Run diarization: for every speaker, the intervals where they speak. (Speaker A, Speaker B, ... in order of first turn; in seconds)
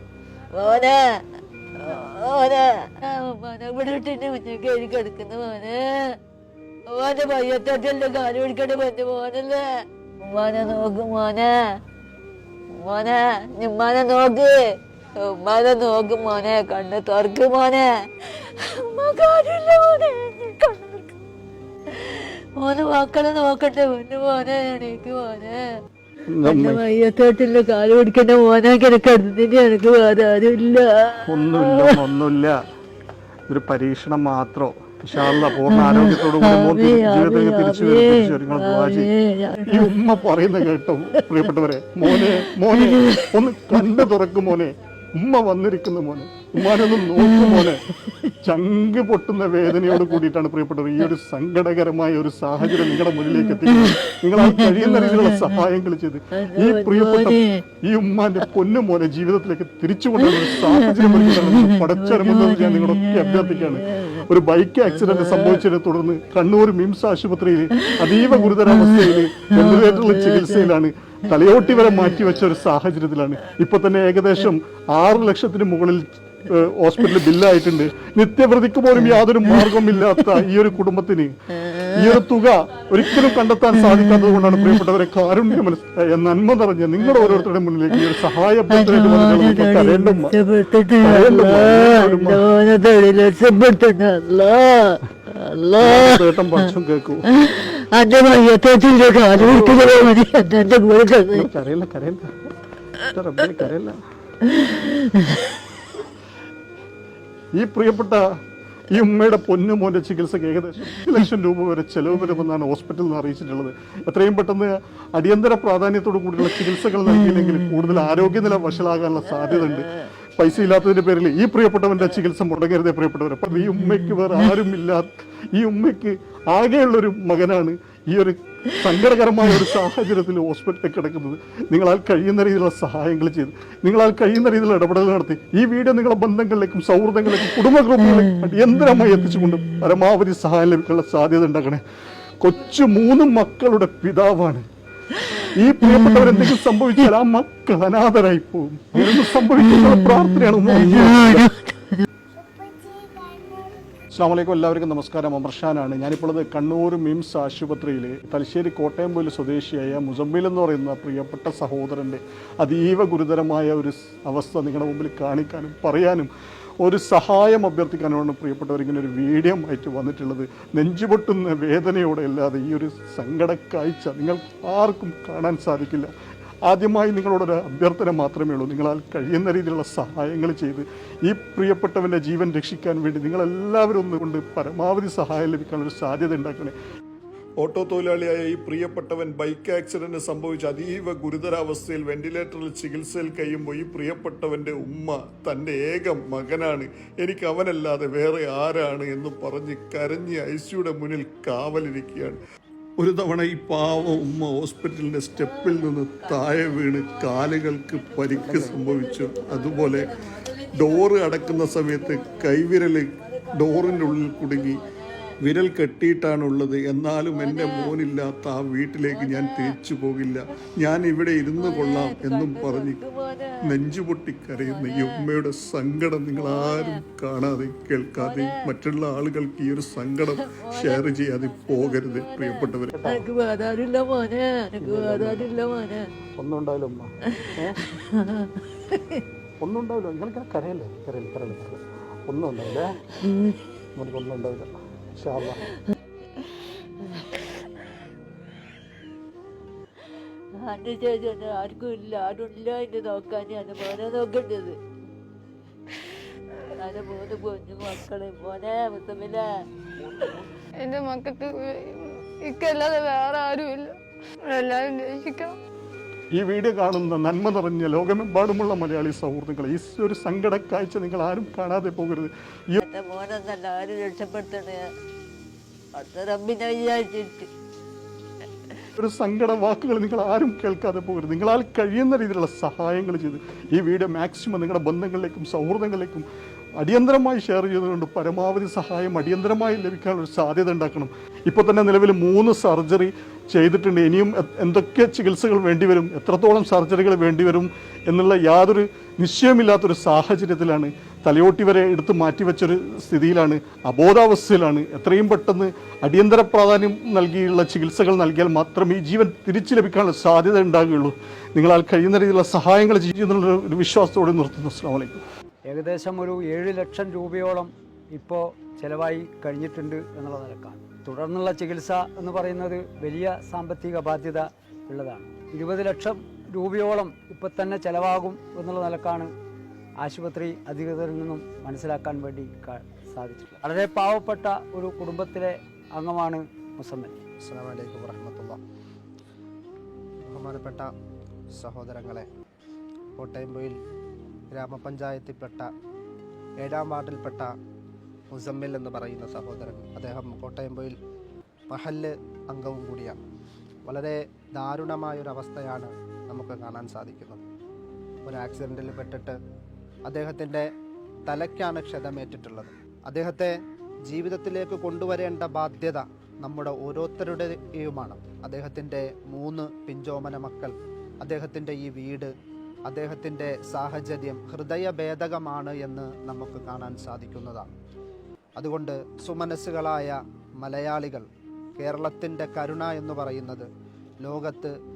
Speaker A: 0.5-1.2, 1.8-6.2, 6.9-9.7, 10.2-11.6, 12.8-14.6, 15.2-21.1, 21.9-25.6, 26.4-32.0, 35.2-39.9, 42.1-43.8, 47.2-48.3, 53.8-55.5, 56.3-57.6, 60.2-64.2, 65.0-65.6, 88.7-96.7, 97.3-101.5, 104.5-105.0, 151.2-152.0, 205.3-215.1, 217.3-218.0, 219.1-219.8, 221.6-223.6, 224.5-225.2, 226.3-227.0, 228.2-228.7, 230.4-236.1, 237.2-239.2, 250.6-254.8, 256.8-259.4, 272.8-274.8, 275.9-277.5
Speaker B: 26.3-26.8, 31.3-32.6, 33.5-39.1, 39.7-47.8, 48.4-81.3, 81.9-90.4, 91.0-92.5, 95.8-97.3, 99.3-100.0, 101.3-102.3, 103.1-104.0, 107.5-108.2, 108.9-141.8, 142.4-144.6, 145.5-151.5, 154.1-176.1, 176.6-186.7, 187.6-202.4, 203.0-210.1, 210.7-214.8, 215.4-223.0, 223.6-233.2, 234.8-235.5, 236.4-237.8, 239.6-243.0, 243.9-245.6, 266.3-272.8, 279.0-286.2, 286.8-315.2
Speaker C: 260.8-263.9, 264.5-265.6
Speaker D: 315.6-329.3, 330.0-337.1
Speaker E: 337.4-338.6, 340.3-340.9, 341.6-342.2, 343.2-343.7, 344.5-345.6, 346.6-347.5, 348.3-350.9, 351.7-353.2, 353.9-357.4, 358.2-359.4, 360.1-360.6, 361.3-363.5, 364.1-372.3, 372.9-377.7, 378.6-381.2, 381.8-383.6, 384.2-384.7